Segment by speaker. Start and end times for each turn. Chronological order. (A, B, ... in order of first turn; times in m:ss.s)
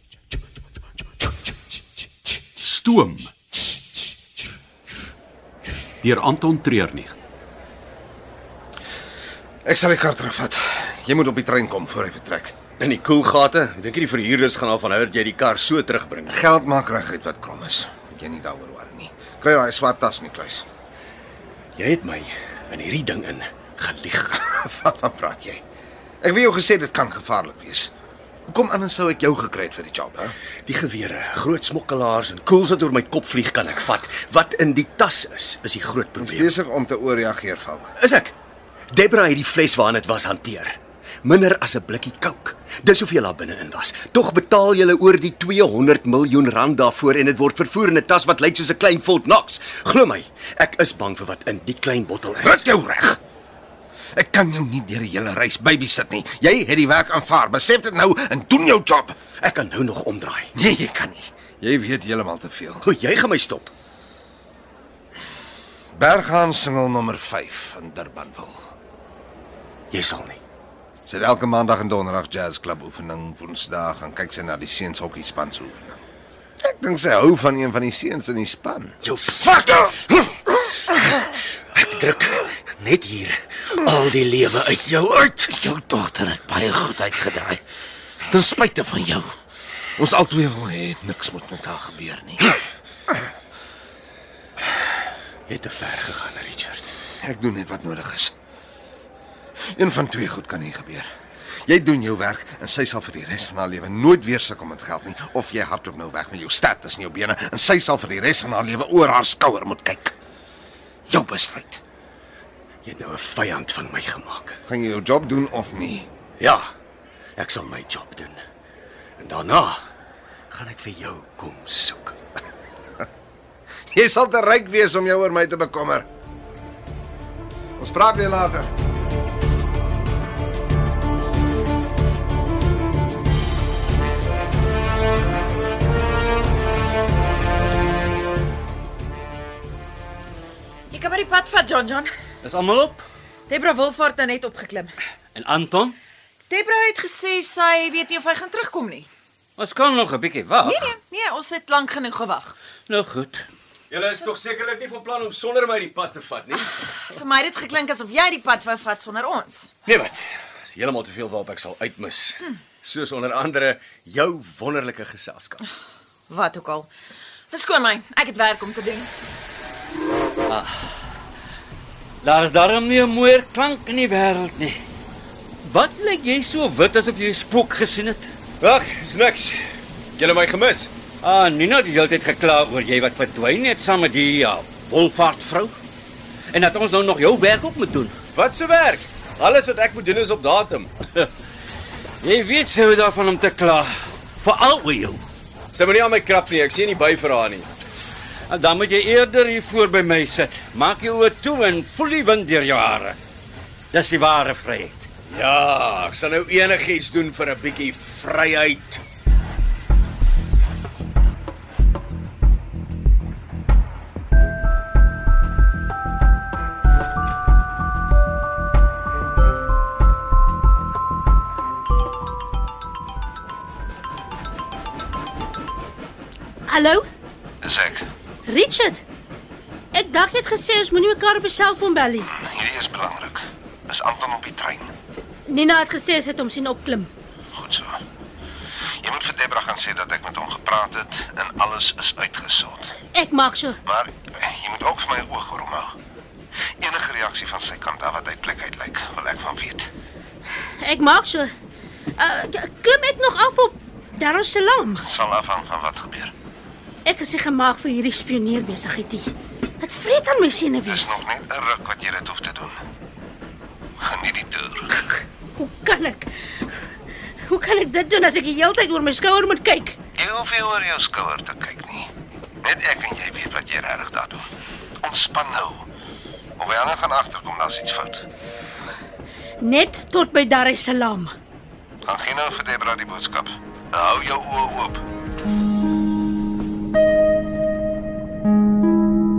0:02.6-0:03.3 A
0:06.0-0:07.2 A
0:09.6-0:12.5 B
0:12.8-0:16.4 C
0:16.3-0:20.6 B
0:21.8-0:24.6 C
0:24.6-0:25.6 B
0:26.2-0:27.9 B
0:28.5-0:30.3 B
0:30.7-0:36.6 C
0:36.2-0:37.9 B
0:38.0-0:38.3 C
0:38.9-0:52.6 C
0:52.4-0:53.2 B
0:54.2-0:59.2 B
0:59.4-1:00.5 C
1:00.6-1:02.9 B
1:02.8-1:03.7 C
1:06.0-1:08.6 B
1:09.9-1:10.4 C
1:11.1-1:16.0 B
1:16.6-1:19.0 B
1:19.0-1:20.3 C
1:21.7-1:25.3 C
1:25.3-1:27.6 B
1:28.2-1:29.3 B
1:30.0-1:32.6 B
1:35.5-1:36.9 C
1:37.2-1:38.3 B
1:39.7-1:41.1 B
1:41.7-1:50.1 B
1:51.1-1:51.8 B
1:52.8-1:54.6 C
1:54.7-1:56.1 B
1:56.4-1:56.7 C
1:57.4-1:58.4 C
1:59.2-1:59.8 C
2:00.5-2:02.2 C
2:03.9-2:06.1 B
2:07.8-2:08.7 B
2:20.9-2:22.1 D
2:22.4-2:23.0 E
2:23.5-2:25.0 D
2:25.4-2:26.0 E
2:26.5-2:29.1 D
2:29.6-2:30.9 E
2:30.6-2:32.5 D
2:32.9-2:33.4 E
2:33.9-2:36.7 C
2:37.1-2:39.7 D
2:39.9-2:45.6 C
2:46.3-2:46.9 D
2:47.5-2:49.1 D
2:50.5-2:50.9 E
2:52.2-2:54.8 E
2:55.6-2:58.3 E
2:58.6-2:59.6 C
3:00.2-3:00.9 C
3:01.2-3:05.8 E
3:06.5-3:08.2 E
3:08.3-3:10.9 C
3:12.2-3:15.2 E
3:15.7-3:17.7 C
3:18.5-3:23.2 E
3:23.9-3:25.1 E
3:25.3-3:29.0 C
3:46.7-3:47.0 F
3:47.6-3:48.0 B
3:48.5-3:49.0 F
3:49.9-3:52.3 F
3:52.3-3:54.9 B
3:55.5-3:57.1 F
3:57.5-3:58.0 B
3:59.0-4:03.0 B
4:03.1-4:03.8 F
4:03.9-4:05.9 B
4:06.8-4:09.9 B
4:10.8-4:11.5 F
4:12.2-4:15.0 F
4:15.0-4:16.3 B
4:17.0-4:19.3 F
4:19.8-4:21.2 F
4:20.9-4:22.8 B
4:24.0-4:24.9 B
4:25.0-4:26.3 F
4:27.5-4:30.0 F
4:30.2-4:32.1 B
4:32.6-4:34.4 B
4:35.0-4:35.8 B
4:36.6-4:38.2 B
4:39.6-4:41.3 F
4:42.0-4:45.0 B